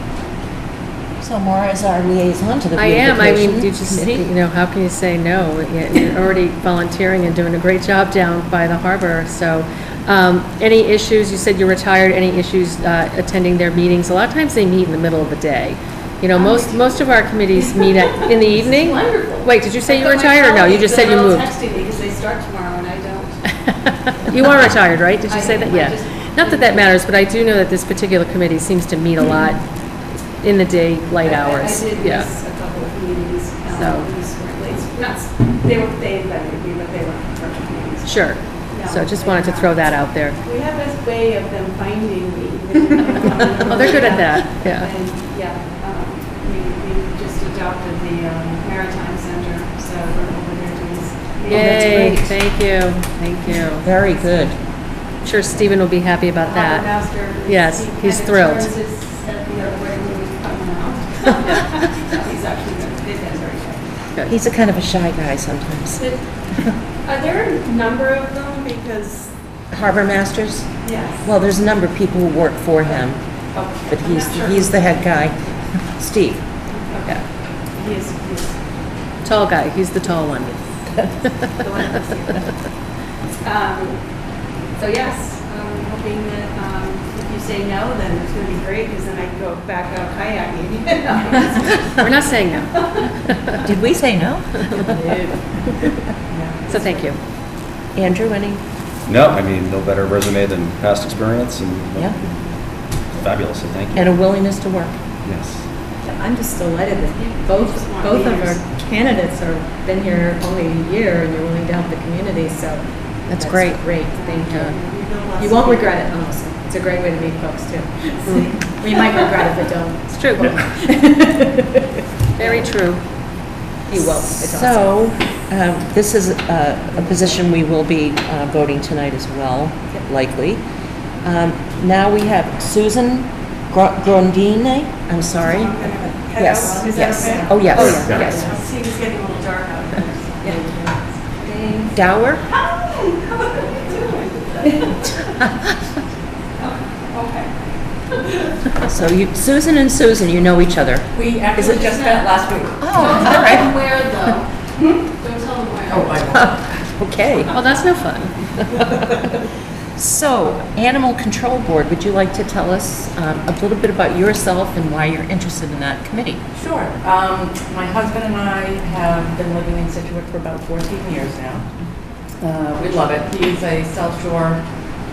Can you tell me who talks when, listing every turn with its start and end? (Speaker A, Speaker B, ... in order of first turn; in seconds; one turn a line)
Speaker A: 1.2-4.3
Speaker B: 2.7-21.5
Speaker C: 16.3-17.0
Speaker C: 17.8-23.5
Speaker B: 24.2-29.6
Speaker C: 25.3-26.9
Speaker B: 30.4-32.3
Speaker C: 31.2-39.8
Speaker B: 33.7-34.1
Speaker B: 38.0-40.4
Speaker C: 40.4-52.2
Speaker B: 43.7-44.9
Speaker B: 51.5-53.8
Speaker A: 51.5-52.3
Speaker A: 53.8-54.6
Speaker B: 55.2-58.7
Speaker C: 56.5-64.0
Speaker A: 64.3-66.0
Speaker C: 66.0-69.3
Speaker A: 69.7-76.4
Speaker C: 70.8-71.3
Speaker C: 73.5-75.7
Speaker C: 76.7-78.6
Speaker B: 79.2-81.5
Speaker C: 81.6-82.5
Speaker C: 83.4-84.1
Speaker C: 84.7-93.1
Speaker B: 92.0-93.6
Speaker A: 93.6-95.1
Speaker D: 95.1-95.5
Speaker C: 96.3-97.1
Speaker B: 96.7-97.2
Speaker A: 97.9-98.6
Speaker E: 99.0-102.3
Speaker E: 103.0-104.1
Speaker A: 103.9-105.0
Speaker E: 105.2-105.6
Speaker D: 106.0-114.7
Speaker C: 107.2-108.6
Speaker B: 113.4-113.8
Speaker A: 113.4-113.8
Speaker C: 114.1-115.9
Speaker B: 114.5-114.7
Speaker D: 115.3-121.8
Speaker B: 118.2-118.5
Speaker B: 120.1-120.6
Speaker B: 122.4-123.0
Speaker D: 122.4-122.7
Speaker D: 123.8-125.1
Speaker A: 124.2-130.6
Speaker A: 131.2-138.3
Speaker C: 135.4-141.9
Speaker F: 137.3-138.2
Speaker B: 137.7-138.5
Speaker A: 141.9-142.4
Speaker C: 142.5-145.2
Speaker C: 146.6-147.5
Speaker A: 148.8-151.9
Speaker F: 151.1-153.4
Speaker A: 152.8-153.9
Speaker B: 153.0-153.7
Speaker C: 153.2-155.9
Speaker F: 155.9-156.8
Speaker A: 156.3-157.5
Speaker B: 157.5-158.5
Speaker A: 159.9-166.4
Speaker F: 166.5-171.7
Speaker F: 172.4-174.6